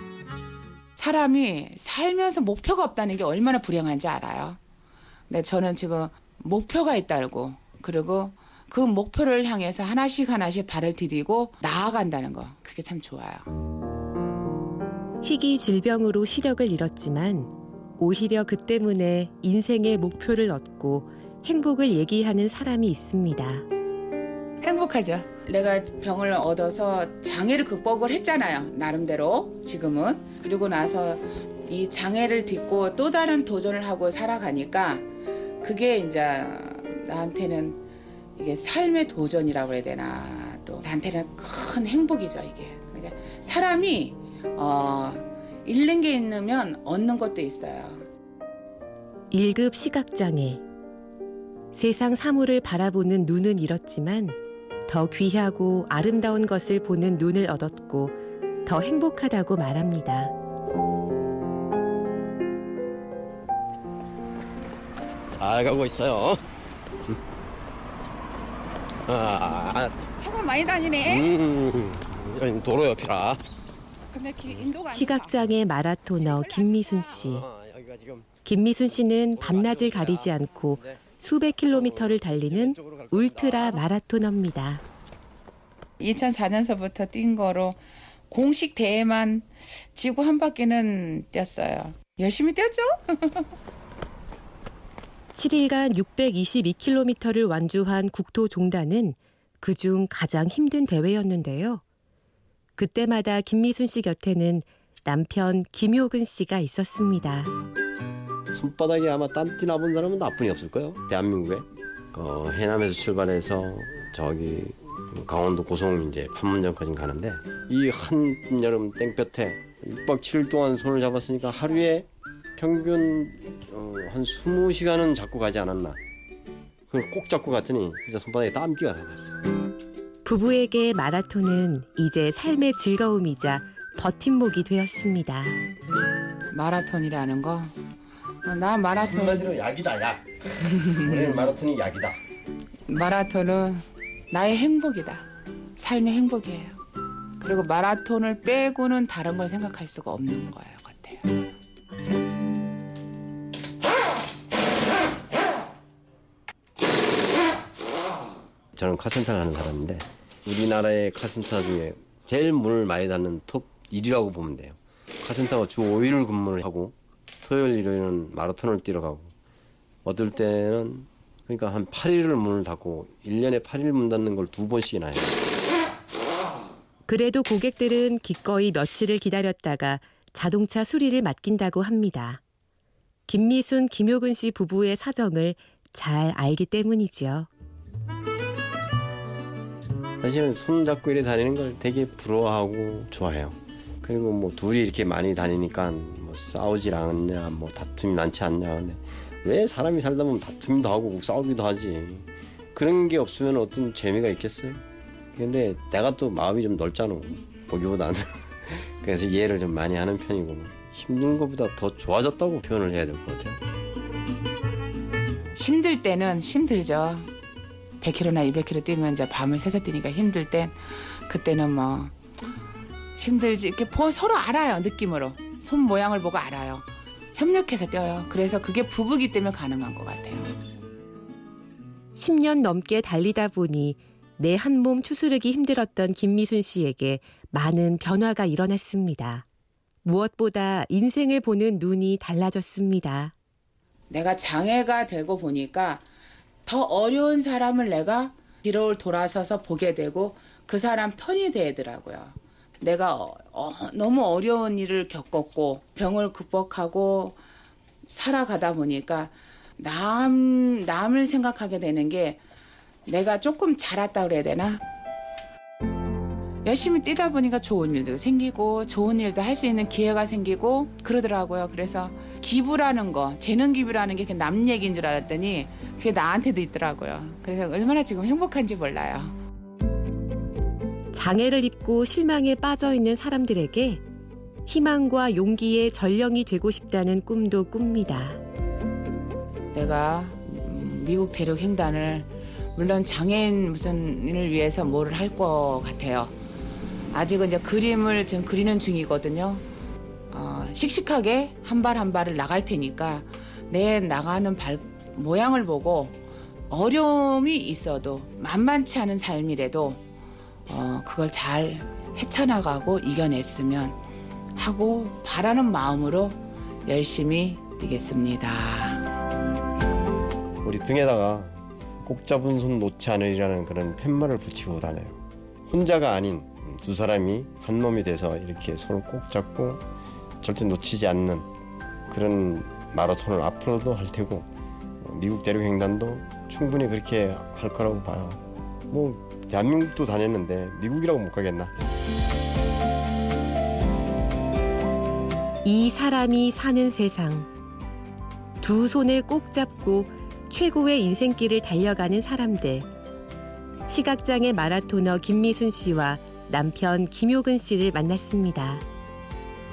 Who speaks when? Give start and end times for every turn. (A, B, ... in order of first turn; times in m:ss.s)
0:01.0-0:04.6 A
0:05.3-0:13.5 A
0:15.2-0:23.7 B
0:24.6-0:35.1 A
0:35.6-0:37.8 A
0:38.4-0:48.0 A
0:49.3-0:50.6 B
0:51.7-1:00.3 B
1:05.3-1:06.4 C
1:09.1-1:10.0 C
1:10.2-1:11.3 A
1:11.0-1:13.4 C
1:14.1-1:15.5 A
1:14.9-1:17.5 B
1:16.2-1:17.2 A
1:17.1-1:18.3 C
1:18.4-1:24.8 B
1:19.3-1:21.0 C
1:21.7-1:23.8 C
1:26.0-1:33.5 A
1:35.3-1:41.8 B
1:42.8-1:47.5 B
1:48.5-2:06.0 C
2:06.9-2:09.4 C
2:10.2-2:15.6 B
2:16.5-2:17.7 A
2:18.4-2:19.5 A
2:19.0-2:22.2 C
2:20.6-2:21.5 A
2:22.9-2:26.8 A
2:27.4-2:31.3 A
2:38.8-2:49.3 C
2:50.0-2:55.4 C
2:57.1-3:02.4 B
3:03.3-3:07.5 B
3:10.2-3:24.8 C
3:25.4-3:33.6 C
3:35.6-3:37.3 A
3:38.0-3:42.2 A
3:43.2-3:50.5 A
3:52.2-3:59.5 B
4:00.0-4:03.3 B
4:04.1-4:06.0 A
4:06.7-4:17.4 A
4:18.1-4:22.4 A
4:23.1-4:24.8 A
4:26.6-4:39.4 A
4:41.1-4:44.0 B
4:44.7-4:48.4 B
4:49.7-4:56.3 A
4:57.1-4:59.6 A
5:00.3-5:06.2 A
5:06.7-5:10.0 A
5:10.7-5:14.0 A
5:14.6-5:19.0 A
5:20.6-5:29.8 C
5:30.4-5:31.5 C
5:32.1-5:34.5 C
5:35.0-5:41.7 C
5:45.6-5:47.5 B
5:48.6-5:52.9 B
5:53.9-5:58.8 B